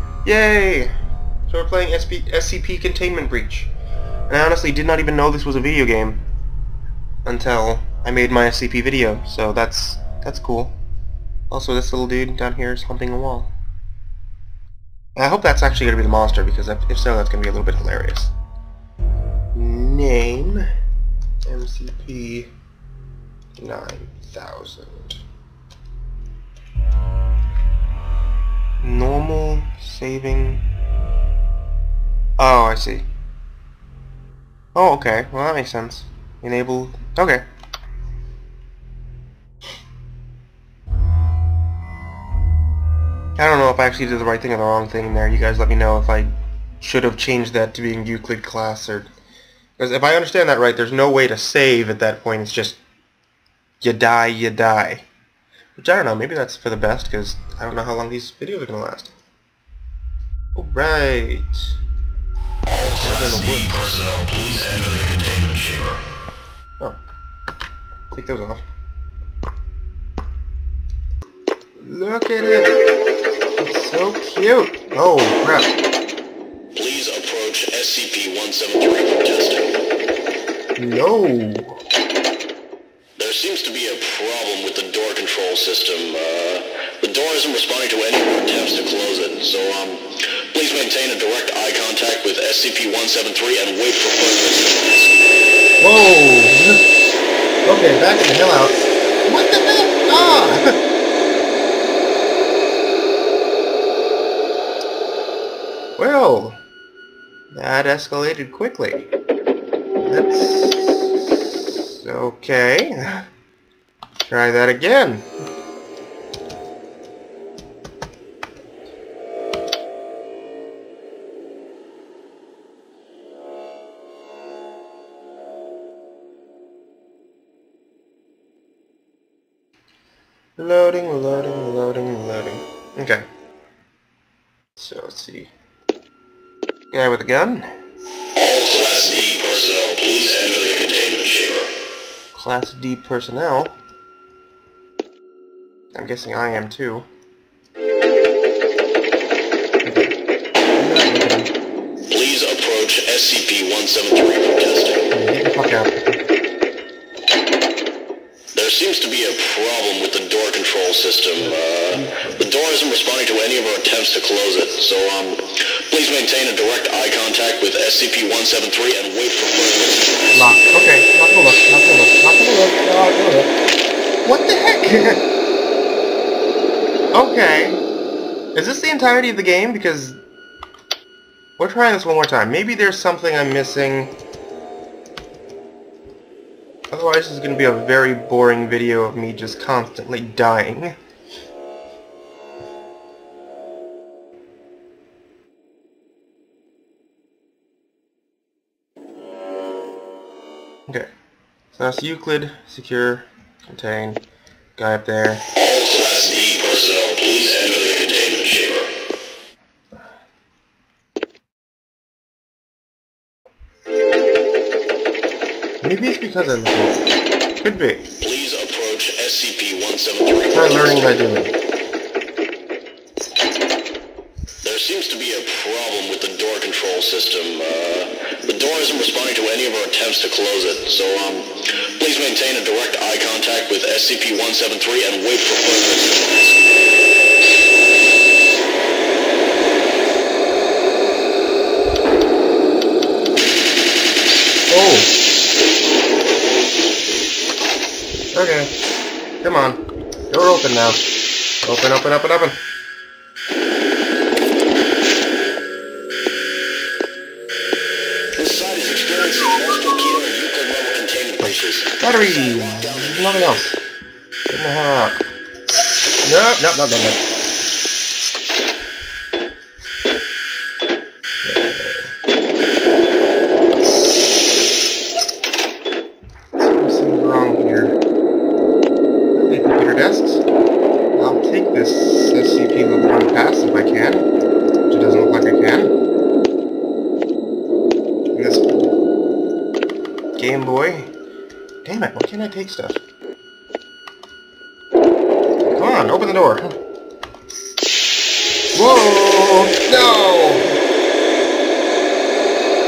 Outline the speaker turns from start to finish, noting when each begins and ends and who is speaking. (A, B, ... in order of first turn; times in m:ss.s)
0:00.2-0:00.9 A
0:01.5-0:03.7 A
0:04.3-0:06.2 A
0:07.2-0:10.7 A
0:11.5-0:13.5 A
0:15.2-0:18.3 A
0:19.5-0:20.7 A
0:21.4-0:22.5 A
0:23.6-0:25.2 A
0:28.8-0:30.6 A
0:32.4-0:33.1 A
0:34.7-0:37.4 A
0:43.4-0:49.1 A
0:49.8-0:52.8 A
0:53.8-0:55.0 A
0:55.8-0:59.1 A
1:00.5-1:01.8 A
1:02.7-1:03.8 A
1:02.8-1:06.0 B
1:08.1-1:08.6 A
1:11.8-1:12.7 A
1:13.6-1:15.8 A
1:16.7-1:19.8 B
1:20.8-1:21.8 A
1:23.2-1:35.3 B
1:35.8-1:36.9 A
1:37.6-1:40.8 A
1:46.0-1:46.6 A
1:47.5-1:49.1 A
1:50.0-1:53.2 A
1:54.2-1:55.3 A
2:10.6-2:13.2 A
2:14.8-2:15.5 A
2:16.9-2:17.7 A
2:18.4-2:21.7 B
2:22.3-2:23.7 A
2:25.9-2:27.1 A
2:29.8-2:30.1 A
2:30.8-2:31.5 A
2:32.1-2:35.1 B
2:35.1-2:36.1 A
2:38.5-2:50.6 B
2:41.4-2:42.5 A
2:50.3-2:53.5 A
2:54.2-2:55.2 A
2:57.1-2:57.8 A
2:58.5-3:00.2 A
3:01.6-3:04.1 A
3:06.9-3:10.9 A
3:21.7-3:24.2 A
3:24.8-3:25.5 A
3:25.6-3:28.9 B
3:35.8-3:37.0 A
3:37.6-3:38.1 A
3:38.2-3:41.1 B
3:40.5-3:41.5 A
3:44.6-3:56.7 B
4:04.7-4:05.1 A
4:08.3-4:08.7 A
4:09.4-4:11.0 A
4:11.6-4:12.6 A
4:18.3-4:23.6 B
4:22.0-4:23.8 A
4:24.5-4:25.2 A
4:26.2-4:27.2 A
4:31.4-4:32.1 A
4:36.6-4:38.0 A
4:39.3-4:40.4 A
4:41.1-4:44.3 A
4:44.9-4:46.0 A
4:48.3-4:49.0 A
4:50.4-4:51.1 A
4:51.8-4:53.0 A
4:55.6-4:56.8 A
4:58.7-5:00.8 A